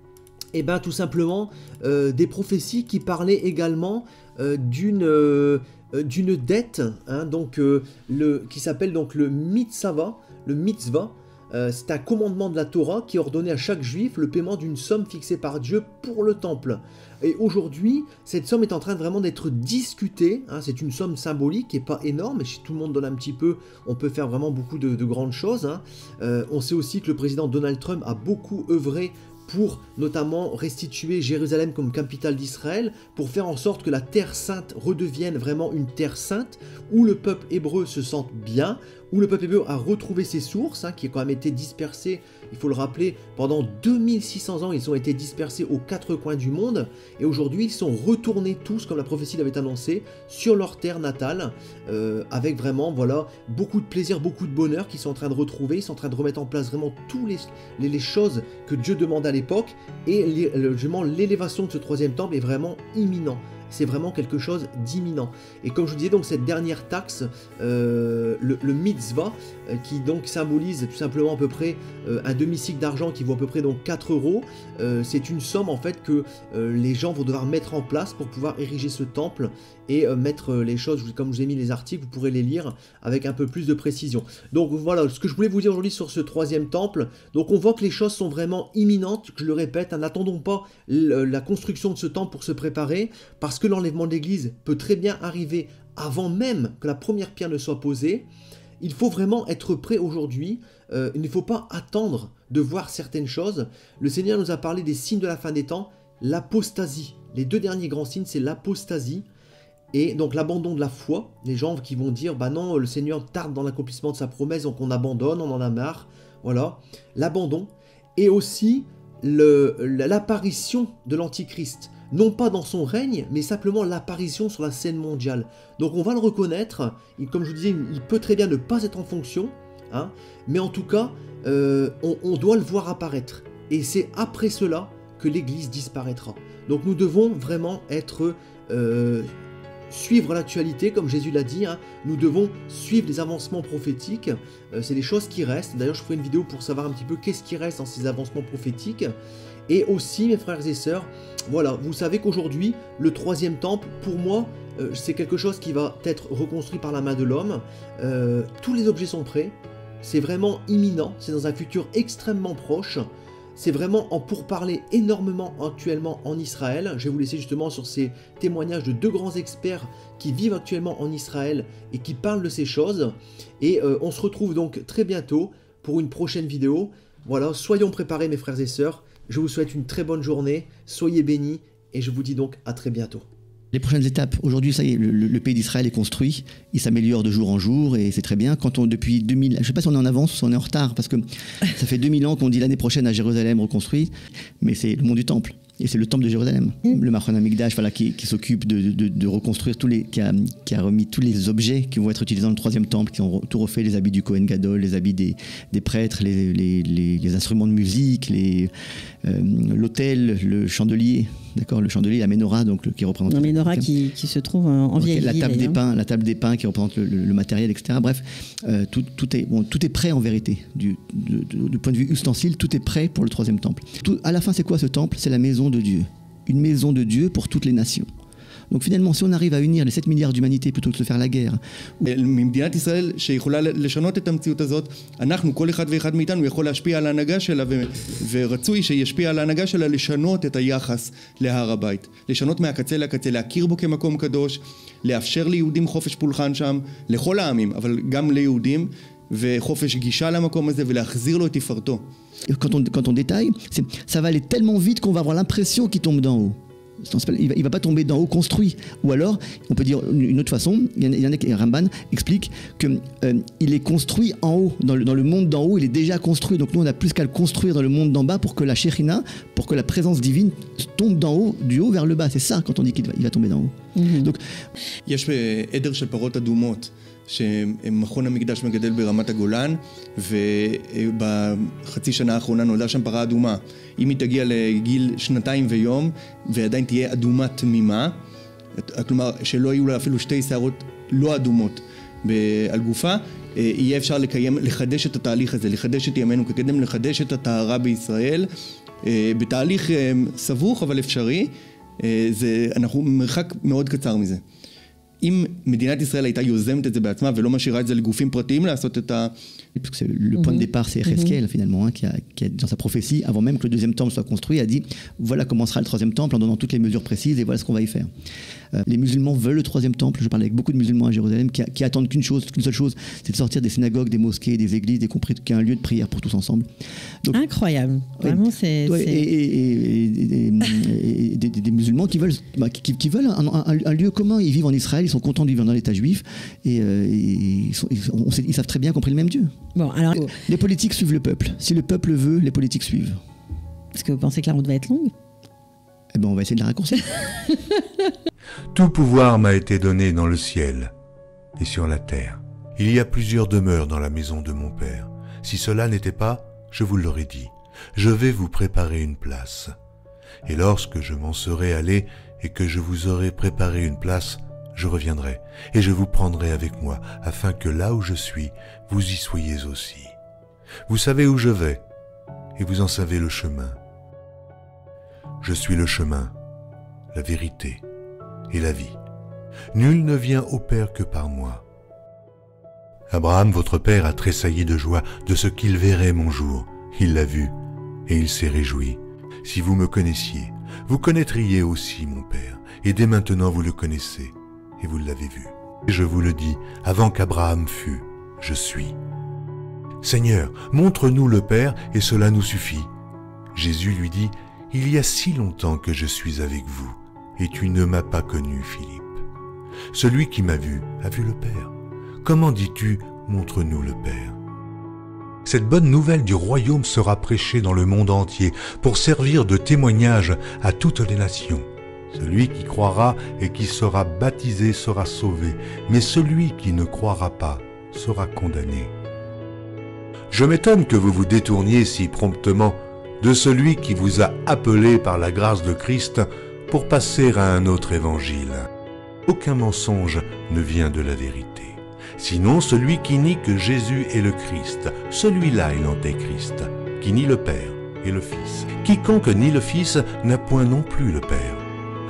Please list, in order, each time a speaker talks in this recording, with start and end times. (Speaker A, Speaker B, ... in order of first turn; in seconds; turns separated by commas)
Speaker A: 0.5-98.3, Speaker A: 98.8-109.3, Speaker A: 109.9-139.3, Speaker A: 139.9-149.2, Speaker A: 149.7-183.3, Speaker B: 183.7-208.7, Speaker B: 209.2-213.9, Speaker C: 213.3-215.8, Speaker B: 215.0-228.1, Speaker B: 228.7-232.1, Speaker D: 232.1-252.1, Speaker B: 252.5-274.4, Speaker C: 273.9-274.3, Speaker D: 275.1-288.2, Speaker D: 288.8-298.5, Speaker D: 299.0-304.4, Speaker D: 305.2-309.4, Speaker B: 309.8-318.1, Speaker C: 310.4-311.4, Speaker B: 318.7-326.7, Speaker C: 327.3-329.3, Speaker B: 328.2-339.5, Speaker C: 339.8-340.4, Speaker B: 340.1-343.2, Speaker C: 343.9-345.1, Speaker B: 346.1-347.1, Speaker C: 347.5-347.8, Speaker E: 348.7-350.9, Speaker E: 351.6-359.8, Speaker E: 360.4-370.1, Speaker E: 370.9-371.8, Speaker E: 372.6-373.8, Speaker E: 375.4-376.3, Speaker E: 377.1-377.8, Speaker E: 378.5-379.0, Speaker E: 379.7-381.6, Speaker E: 383.1-387.5, Speaker E: 388.1-399.0, Speaker E: 400.0-402.9, Speaker E: 403.5-409.2, Speaker E: 409.9-414.4, Speaker E: 415.4-428.9, Speaker E: 430.3-438.7, Speaker E: 439.3-451.6